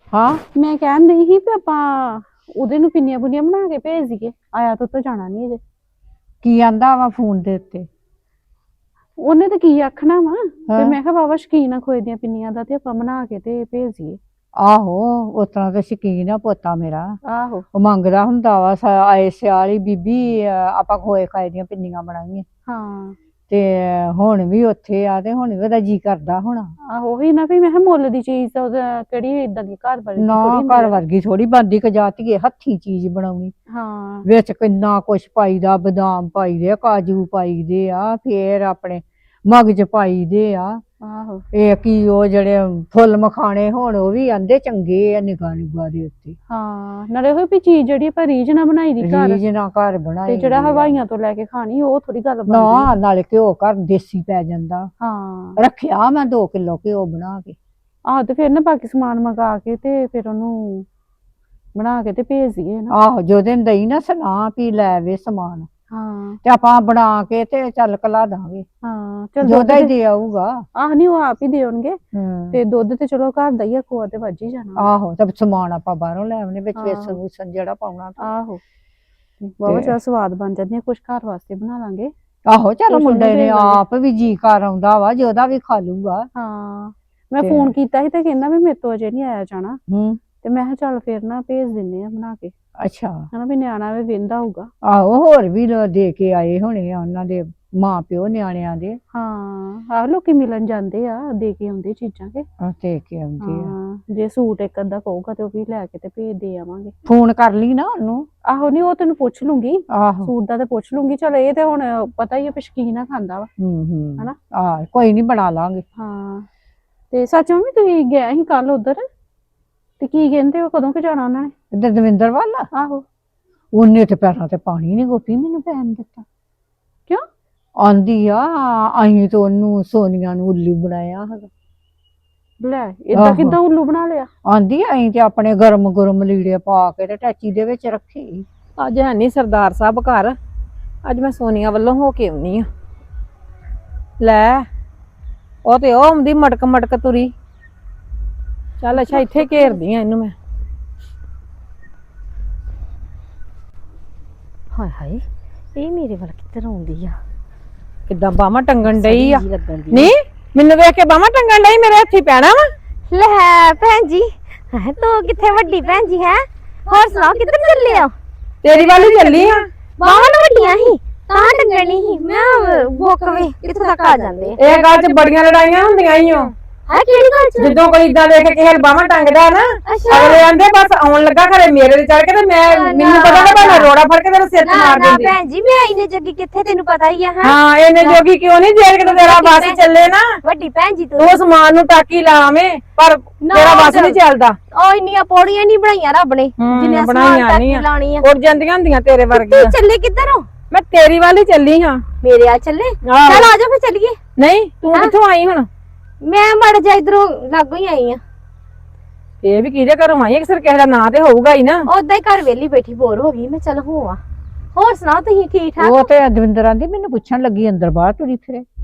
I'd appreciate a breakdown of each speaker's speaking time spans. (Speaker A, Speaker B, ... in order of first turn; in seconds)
Speaker A: 0.1-0.4, 6.4-7.9, 10.7-11.0, 14.6-17.2, 17.7-22.4, 23.5-26.7, 30.2-33.5, 34.2-40.8, 41.5-46.4, 49.0-51.0, 52.5-54.9, 55.6-57.6, 62.9-65.7, 66.4-68.7, 69.4-70.6, 72.1-72.6, 74.8-78.3, 79.7-80.0, 82.5-86.3, 87.4-87.7, 89.9-90.2, 92.8-93.3, 94.8-99.0, 102.6-103.7, 107.0-108.3, 109.9-110.3, 113.6-115.8, 121.7-122.7, 123.7-126.2, 127.8-131.5, 133.1-133.6, 134.4-138.5, 215.8-218.7
Speaker B: 0.5-5.6, 9.2-14.2, 17.3-17.7, 22.7-23.2, 26.9-31.0, 33.7-34.3, 41.0-41.4, 46.5-49.4, 50.3-52.9, 55.0-55.6, 58.1-60.9, 61.8-62.9, 65.9-66.4, 68.8-69.9, 70.8-72.0, 72.5-74.9, 76.8-77.2, 78.2-78.6, 79.4-82.1, 82.9-83.8, 86.3-89.8, 90.4-92.5, 93.3-94.7, 99.1-102.5, 103.4-106.9, 108.5-113.5, 116.0-116.5, 117.1-119.0, 120.0-121.5, 122.7-123.0, 132.6-134.3
Speaker C: 138.8-140.4, 141.1-142.7, 144.2-144.7, 145.7-147.3, 148.8-150.3, 158.1-162.6, 168.6-169.7, 174.6-176.5, 177.6-185.3, 187.4-190.2, 191.2-194.6, 196.6-199.7, 200.7-202.0, 203.1-203.5, 204.4-205.7, 209.4-211.9
Speaker D: 149.0-149.8, 154.7-155.2, 155.8-157.2, 158.9-160.1, 163.1-168.1, 170.0-174.6, 176.9-177.8, 179.9-180.4, 182.7-183.9, 184.6-188.2, 189.0-189.8, 190.4-191.4, 193.4-194.2, 194.7-198.3, 199.3-200.5, 202.2-204.2, 206.2-208.2, 211.9-214.2, 214.8-216.1